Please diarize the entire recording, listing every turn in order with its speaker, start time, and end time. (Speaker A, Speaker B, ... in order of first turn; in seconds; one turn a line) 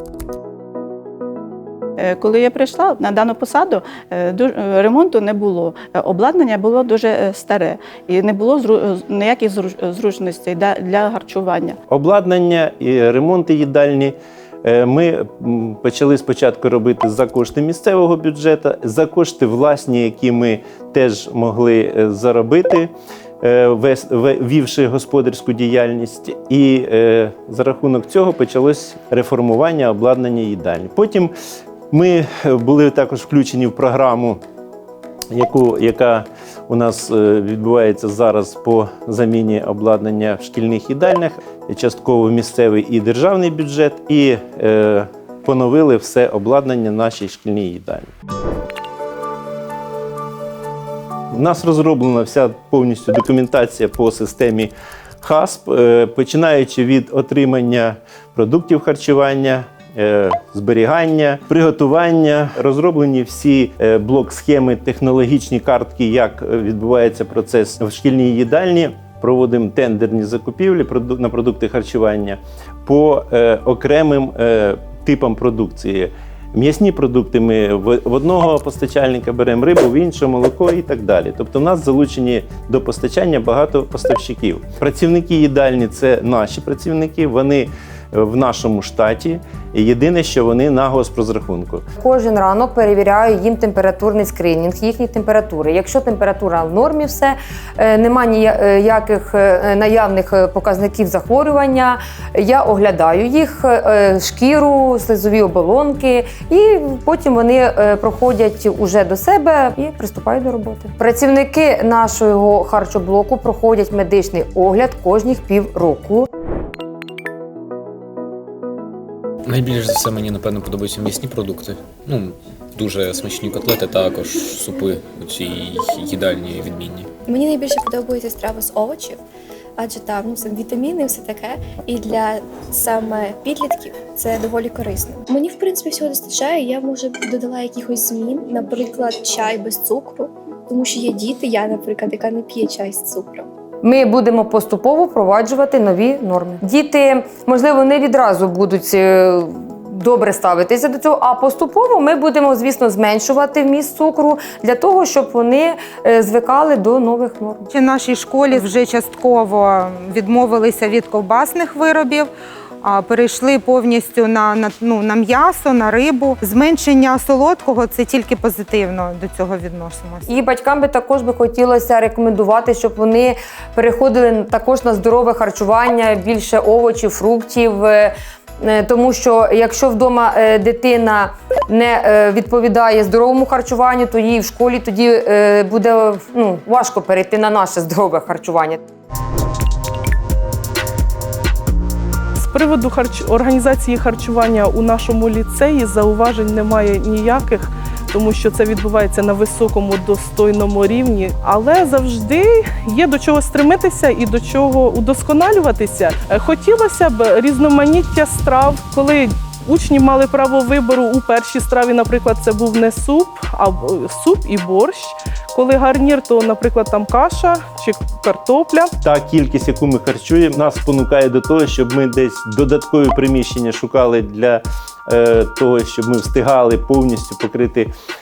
Speaker A: 2.0-11.8
Speaker B: 11.9-22.9
Speaker B: 23.4-31.3
Speaker B: 31.9-34.4
Speaker B: 35.3-48.1
Speaker B: 51.3-54.7
Speaker B: 55.2-91.8
Speaker C: 92.0-116.2
Speaker D: 119.5-127.1
Speaker E: 127.2-129.2
Speaker E: 129.8-143.5
Speaker C: 143.8-157.7
Speaker F: 157.7-162.3
Speaker F: 162.8-170.2
Speaker C: 170.3-188.8
Speaker G: 192.4-218.9
Speaker B: 219.0-227.9